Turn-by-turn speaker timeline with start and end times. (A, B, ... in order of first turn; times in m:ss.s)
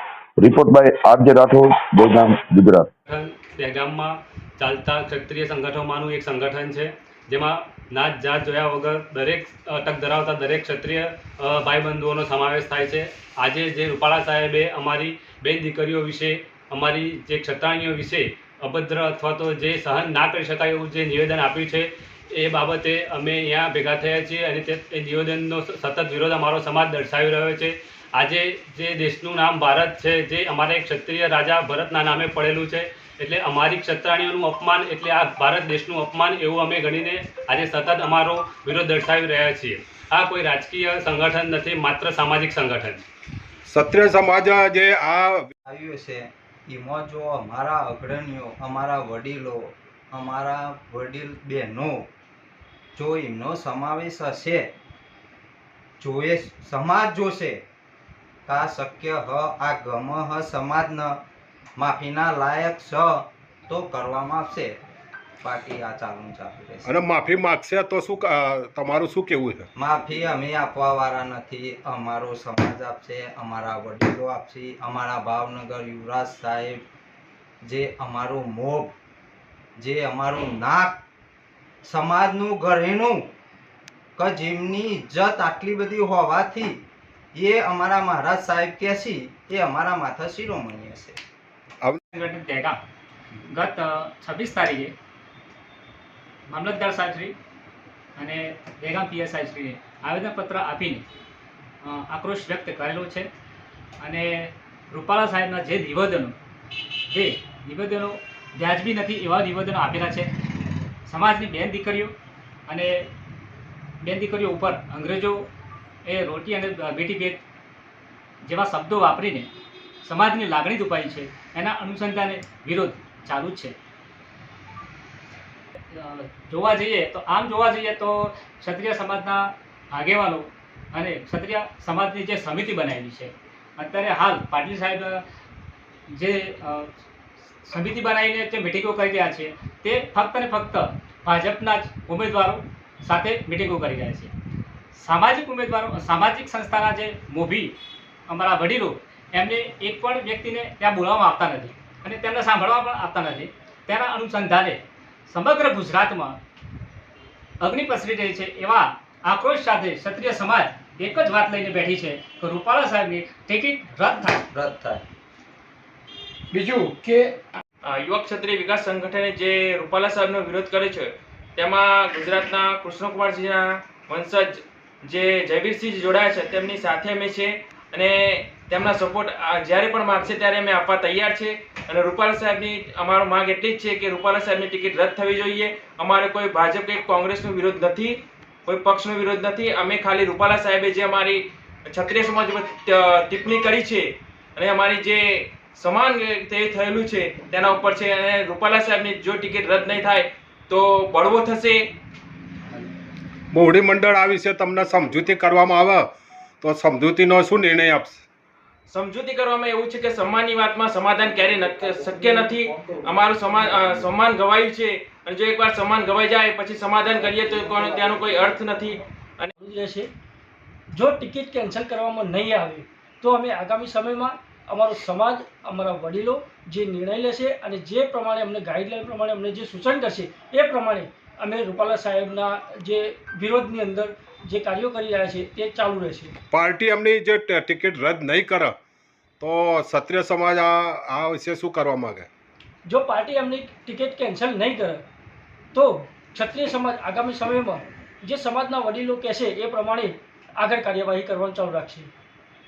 0:00.4-0:02.9 A
0:03.1-0:43.0 B
0:43.7-0:45.5 C
0:45.7-0:52.1 D
0:53.0-0:54.7 D
0:56.0-0:57.6 D
0:58.5-1:01.2 D
1:01.8-1:04.8 D
1:05.4-1:06.9 D
1:06.8-1:09.7 C
1:09.8-1:16.8 D
1:17.6-1:18.9 D
1:19.8-1:21.0 D
1:21.8-1:23.3 D
1:24.2-1:26.8 D
1:27.3-1:31.2 D
1:32.1-1:32.8 E
1:33.5-1:34.9 E
1:36.5-1:37.3 E
1:38.2-1:41.0 E
1:41.8-1:43.3 E
1:44.0-1:46.4 E
1:47.1-1:50.3 E
1:51.1-1:52.1 E
1:52.7-1:53.1 E
1:54.0-1:55.5 E
1:56.0-1:57.4 E
1:58.4-1:59.5 E
2:00.0-2:03.8 E
2:05.9-2:15.2 E
2:16.1-2:16.9 E
2:17.6-2:24.3 E
2:24.9-2:27.7 E
2:28.3-2:36.4 E
2:37.6-2:44.4 E
2:44.5-2:45.0 D
2:47.8-3:21.9 F
3:23.5-3:26.1 C
3:26.6-3:28.2 C
3:28.9-3:39.5 F
3:39.6-3:40.1 G
3:40.9-3:56.3 G
3:56.5-3:58.8 C
3:59.4-4:02.3 C
4:02.9-4:05.0 G
4:05.7-4:12.1 G